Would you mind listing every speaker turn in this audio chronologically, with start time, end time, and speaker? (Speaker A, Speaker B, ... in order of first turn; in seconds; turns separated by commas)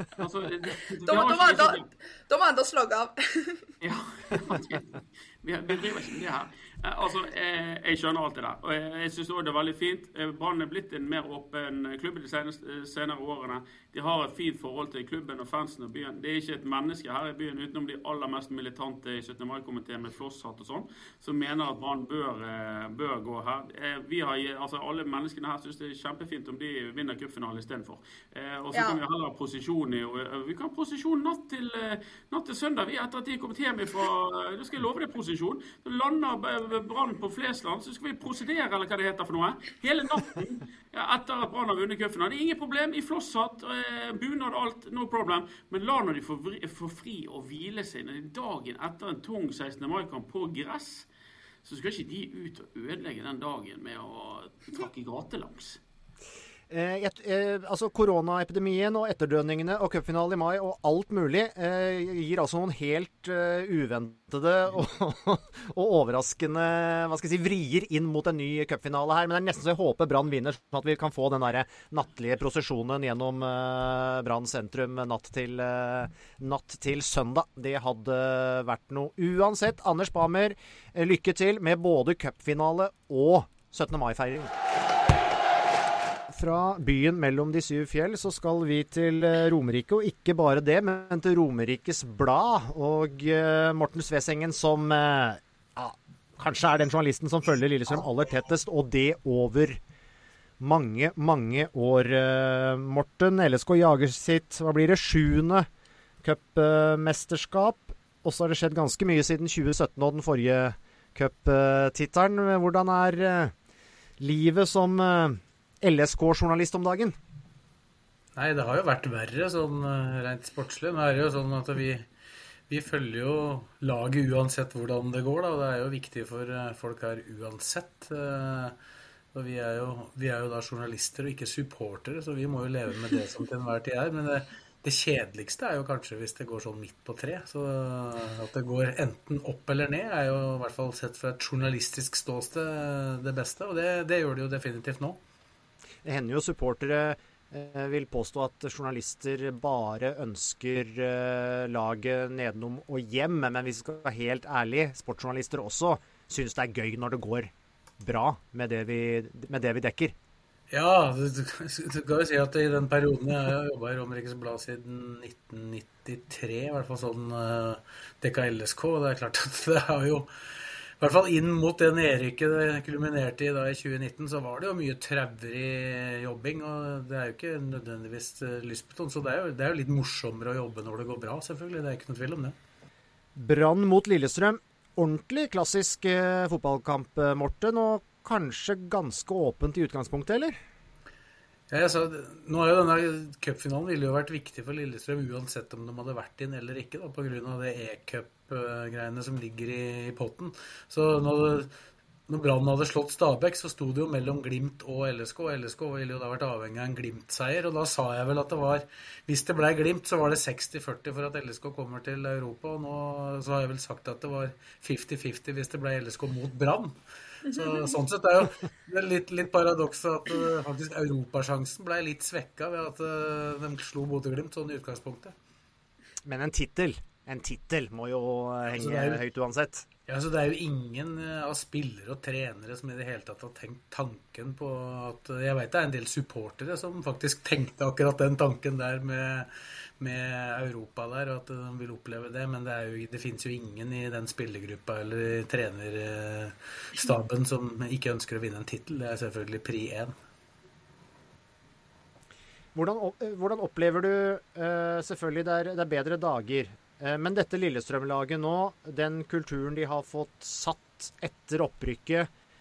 Speaker A: 0.2-1.9, Speaker B: 1.1-3.7, Speaker A: 3.8-51.1, Speaker B: 28.7-29.0, Speaker A: 51.6-55.8, Speaker C: 56.7-84.5, Speaker C: 86.3-99.8, Speaker C: 100.6-105.7, Speaker C: 106.2-113.5, Speaker C: 114.2-117.2, Speaker D: 118.3-122.1, Speaker D: 122.7-128.8, Speaker D: 129.3-145.2, Speaker C: 146.0-160.2, Speaker D: 160.7-170.3, Speaker D: 171.0-182.6, Speaker C: 183.4-190.6, Speaker D: 191.7-201.7, Speaker D: 202.3-225.3, Speaker C: 226.2-229.9, Speaker D: 228.8-229.2, Speaker D: 230.1-250.1, Speaker C: 252.8-262.3